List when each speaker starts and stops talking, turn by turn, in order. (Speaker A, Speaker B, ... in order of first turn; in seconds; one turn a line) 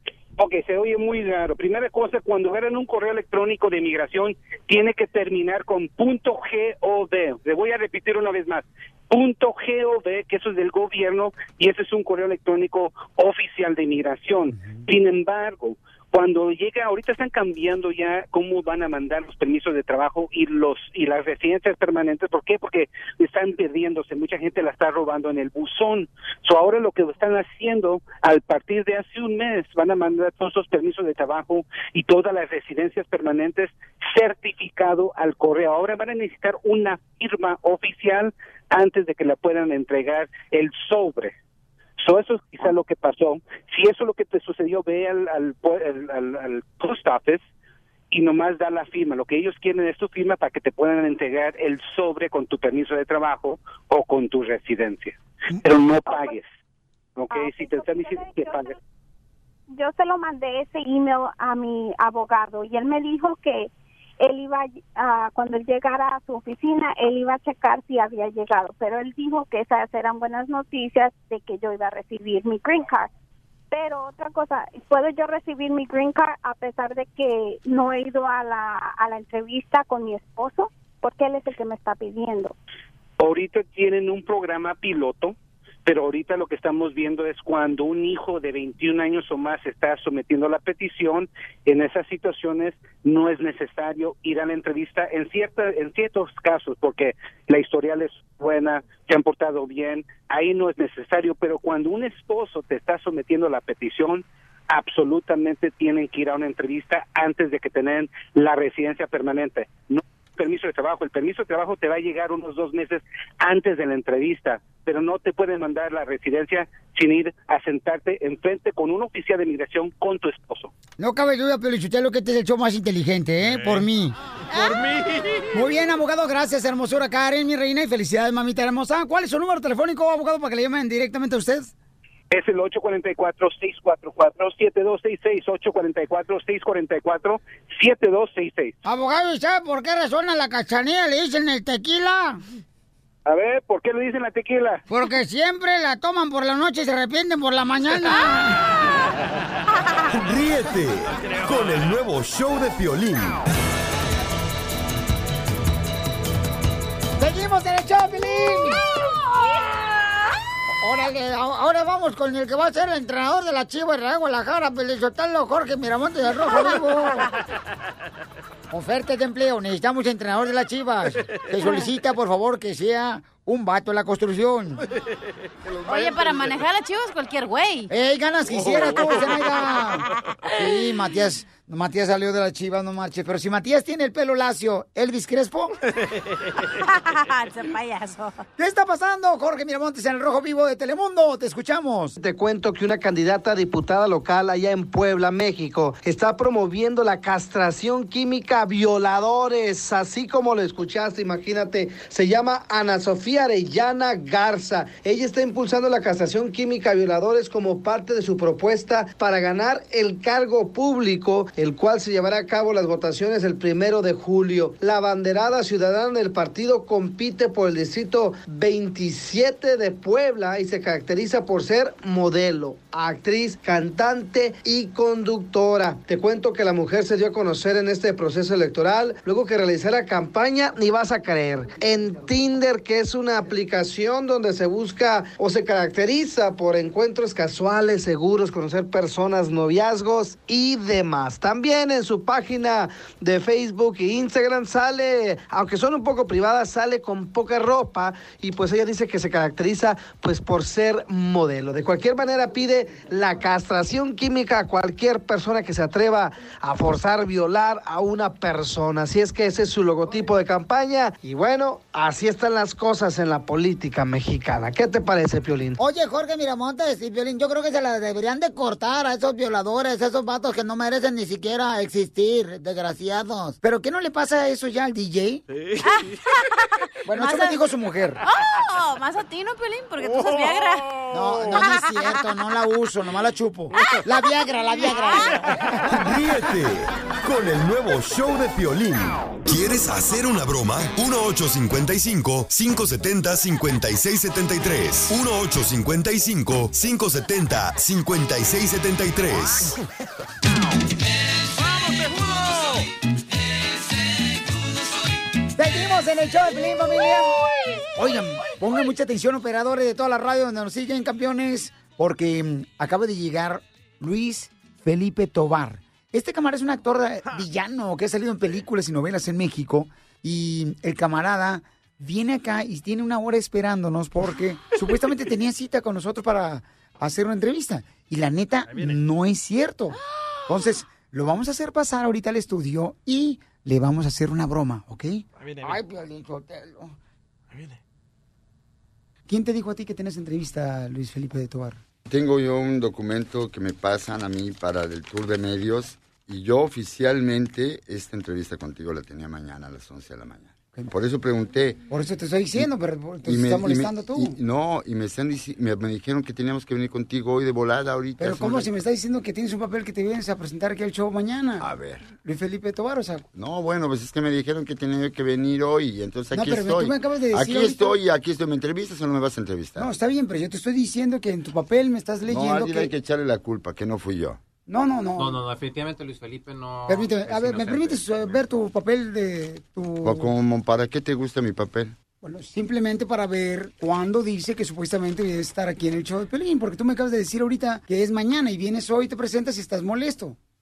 Speaker A: 0.4-41.3
Speaker A: 42.0-47.4
Speaker A: 48.1-56.5
Speaker B: 56.1-56.4
Speaker A: 57.2-58.8
Speaker B: 57.3-58.8
Speaker B: 59.7-73.1
Speaker B: 73.7-82.5
Speaker A: 83.2-120.7
Speaker C: 121.0-124.2
Speaker D: 123.4-123.8
Speaker D: 124.5-125.5
Speaker E: 124.5-124.8
Speaker C: 125.5-131.7
Speaker A: 132.3-138.8
Speaker C: 138.8-142.4
Speaker A: 143.3-144.8
Speaker C: 144.9-148.6
Speaker F: 150.1-153.4
Speaker D: 151.2-151.9
Speaker C: 157.2-158.8
Speaker C: 160.8-167.3
Speaker C: 168.7-174.8
Speaker D: 175.7-176.4
Speaker E: 175.8-177.9
Speaker C: 177.9-185.7
Speaker D: 178.5-180.1
Speaker D: 186.0-186.5
Speaker E: 186.8-188.4
Speaker C: 188.6-192.1
Speaker G: 192.2-265.8
Speaker C: 265.8-275.4
Speaker D: 275.5-276.2
Speaker E: 275.8-276.6
Speaker C: 277.1-278.2
Speaker E: 277.2-277.6
Speaker E: 278.2-280.9
Speaker D: 280.0-281.7
Speaker C: 281.1-286.0
Speaker F: 285.9-299.7
Speaker D: 301.8-302.8
Speaker C: 305.6-307.3
Speaker C: 308.0-336.9
Speaker D: 328.7-329.0
Speaker D: 335.4-335.8
Speaker D: 337.5-337.8
Speaker C: 339.3-341.8
Speaker H: 342.1-351.8
Speaker C: 351.9-354.3
Speaker H: 353.2-358.7
Speaker C: 358.2-361.6
Speaker H: 361.6-362.1
Speaker C: 362.2-363.3
Speaker H: 363.3-369.9
Speaker C: 366.3-367.9
Speaker C: 369.8-372.9
Speaker H: 372.3-374.4
Speaker C: 374.7-375.4
Speaker I: 375.1-378.5
Speaker C: 376.9-380.3
Speaker H: 380.0-381.9
Speaker C: 382.2-390.4